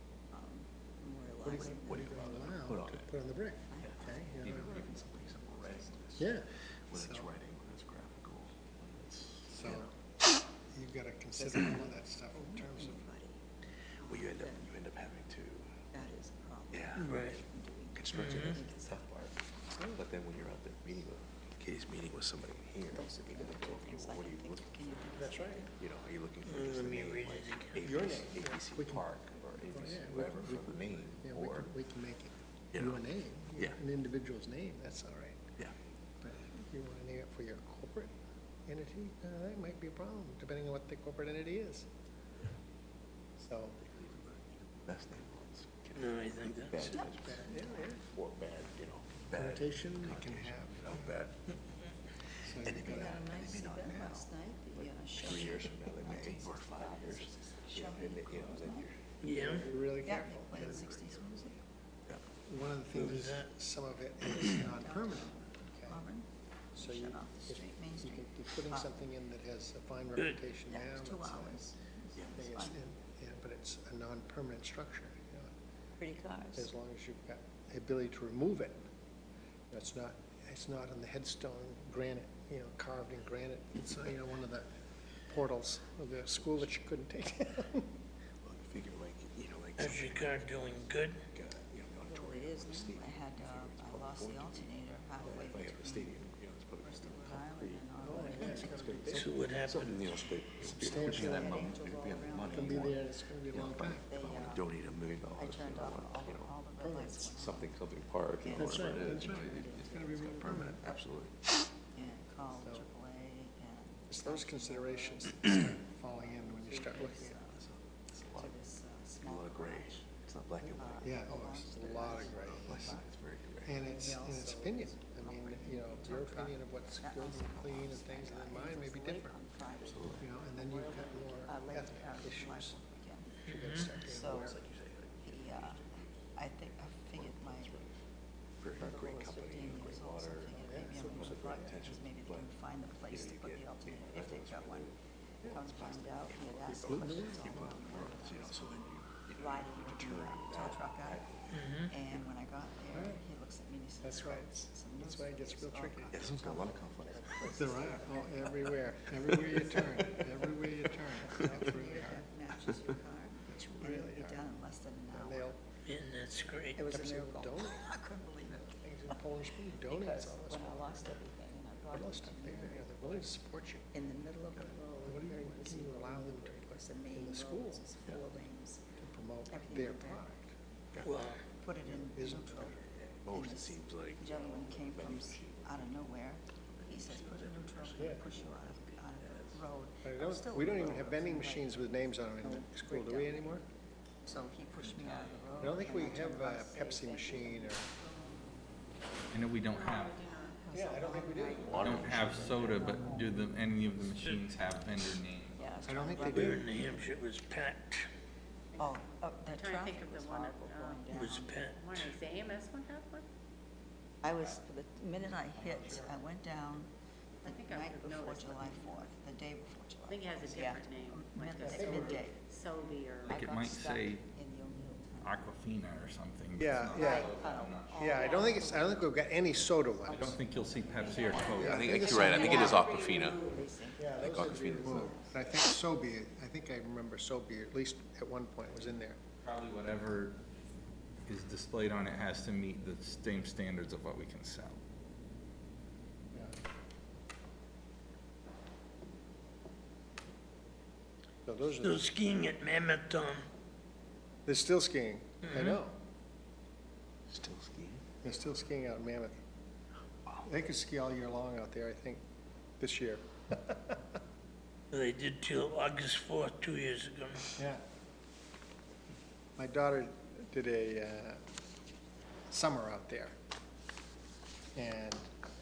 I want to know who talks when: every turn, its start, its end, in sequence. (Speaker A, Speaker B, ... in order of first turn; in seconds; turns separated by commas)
Speaker A: 0.3-2.7, Speaker B: 1.4-4.8, Speaker C: 1.7-3.1, Speaker A: 3.7-6.0, Speaker C: 3.9-6.3, Speaker D: 4.4-5.5, Speaker B: 6.2-7.3, Speaker C: 6.9-9.9, Speaker B: 9.5-9.9, Speaker B: 10.7-13.1, Speaker A: 11.4-13.4, Speaker A: 14.0-14.7, Speaker C: 14.0-15.7, Speaker A: 15.9-19.2, Speaker C: 16.7-17.4, Speaker E: 17.0-17.4, Speaker C: 17.9-25.0, Speaker E: 18.1-18.5, Speaker B: 19.8-20.0, Speaker A: 22.9-25.7, Speaker B: 25.2-25.6, Speaker C: 25.7-31.7, Speaker E: 26.4-27.8, Speaker B: 27.8-29.0, Speaker B: 29.7-35.5, Speaker C: 32.7-33.0, Speaker B: 36.2-38.1, Speaker B: 38.7-41.9, Speaker B: 43.4-43.8, Speaker C: 43.8-51.5, Speaker E: 46.0-46.9, Speaker A: 46.9-47.9, Speaker B: 46.9-48.0, Speaker B: 49.3-51.1, Speaker B: 52.4-53.2, Speaker C: 52.5-59.2, Speaker A: 52.6-58.9, Speaker E: 59.2-59.7, Speaker B: 59.4-60.9, Speaker A: 60.0-61.6, Speaker C: 60.6-61.2, Speaker B: 62.5-66.0, Speaker E: 62.9-63.5, Speaker A: 64.5-66.2, Speaker A: 66.8-69.0, Speaker B: 66.8-71.7, Speaker A: 70.7-72.8, Speaker B: 72.3-75.5, Speaker A: 76.0-76.7, Speaker B: 76.6-78.8, Speaker B: 79.7-84.7, Speaker B: 85.3-87.9, Speaker C: 88.4-90.5, Speaker E: 89.8-91.2, Speaker C: 91.2-106.5, Speaker A: 92.1-96.2, Speaker A: 96.8-99.2, Speaker B: 98.0-99.4, Speaker E: 99.1-100.1, Speaker B: 100.6-101.7, Speaker A: 100.9-103.0, Speaker B: 102.5-104.1, Speaker A: 104.0-104.7, Speaker A: 105.3-107.8, Speaker B: 106.8-107.3, Speaker C: 107.2-111.5, Speaker A: 108.4-111.0, Speaker B: 108.5-110.8, Speaker A: 111.9-115.6, Speaker B: 112.5-112.8, Speaker B: 114.1-117.4, Speaker A: 116.2-117.6, Speaker C: 117.6-118.6, Speaker A: 118.3-120.0, Speaker C: 119.2-123.8, Speaker B: 120.6-122.9, Speaker A: 120.8-123.1, Speaker B: 123.7-129.4, Speaker A: 123.8-133.4, Speaker C: 129.8-130.2, Speaker B: 130.2-132.8, Speaker B: 133.4-134.6, Speaker E: 133.5-133.9, Speaker A: 133.9-134.5, Speaker C: 134.2-136.1, Speaker A: 135.2-137.8, Speaker C: 137.1-138.0, Speaker C: 138.6-144.9, Speaker A: 138.8-144.9, Speaker B: 140.6-141.6, Speaker A: 145.4-151.2, Speaker C: 145.4-152.2, Speaker B: 146.8-147.9, Speaker A: 151.8-160.3, Speaker B: 152.9-153.2, Speaker B: 154.0-156.6, Speaker C: 156.1-158.5, Speaker B: 157.4-162.3, Speaker C: 159.3-160.1, Speaker A: 161.2-165.5, Speaker B: 163.5-164.5, Speaker B: 165.1-165.6, Speaker E: 165.8-166.8, Speaker A: 166.8-169.2, Speaker B: 166.9-167.9, Speaker B: 168.7-171.2, Speaker A: 169.8-173.3, Speaker B: 171.9-173.9, Speaker A: 173.9-178.8, Speaker B: 175.0-177.9, Speaker B: 179.0-180.5, Speaker A: 179.5-180.2, Speaker E: 181.0-181.4, Speaker A: 181.5-193.6, Speaker B: 181.9-182.8, Speaker C: 182.9-186.1, Speaker C: 186.7-189.7, Speaker B: 188.0-188.2, Speaker B: 190.0-193.7, Speaker C: 190.6-191.0, Speaker A: 194.2-198.5, Speaker D: 194.8-195.9, Speaker B: 195.6-197.9, Speaker D: 199.3-200.2, Speaker F: 199.7-201.6, Speaker A: 200.3-203.2, Speaker B: 200.7-202.5, Speaker C: 201.3-203.0, Speaker E: 201.7-202.2, Speaker D: 201.7-205.9, Speaker A: 205.6-207.1, Speaker B: 205.9-206.7, Speaker E: 206.2-208.1, Speaker A: 208.8-211.7, Speaker F: 209.5-211.2, Speaker E: 211.1-212.2, Speaker F: 211.7-213.2, Speaker A: 214.2-216.9, Speaker D: 215.7-216.1, Speaker F: 217.4-219.1, Speaker A: 217.4-222.4, Speaker F: 220.1-223.3, Speaker B: 221.6-222.1, Speaker D: 221.7-222.2, Speaker D: 223.2-224.2, Speaker A: 223.2-225.4, Speaker D: 225.2-228.6, Speaker B: 226.6-227.2, Speaker A: 226.9-235.4, Speaker B: 227.9-230.4, Speaker D: 230.1-232.4, Speaker E: 231.4-232.8, Speaker B: 231.5-232.7, Speaker C: 231.6-233.5, Speaker F: 232.8-233.4, Speaker B: 234.0-239.2, Speaker C: 234.1-235.2, Speaker D: 239.4-240.4, Speaker D: 241.3-244.8, Speaker B: 251.4-252.1, Speaker E: 251.8-253.4, Speaker B: 254.4-256.0, Speaker E: 255.4-255.8, Speaker C: 257.3-258.0, Speaker B: 258.2-259.4, Speaker B: 260.4-262.2, Speaker B: 262.8-264.0, Speaker E: 264.9-267.6, Speaker B: 267.6-267.8, Speaker B: 269.6-271.4, Speaker B: 272.5-273.3, Speaker B: 274.8-275.3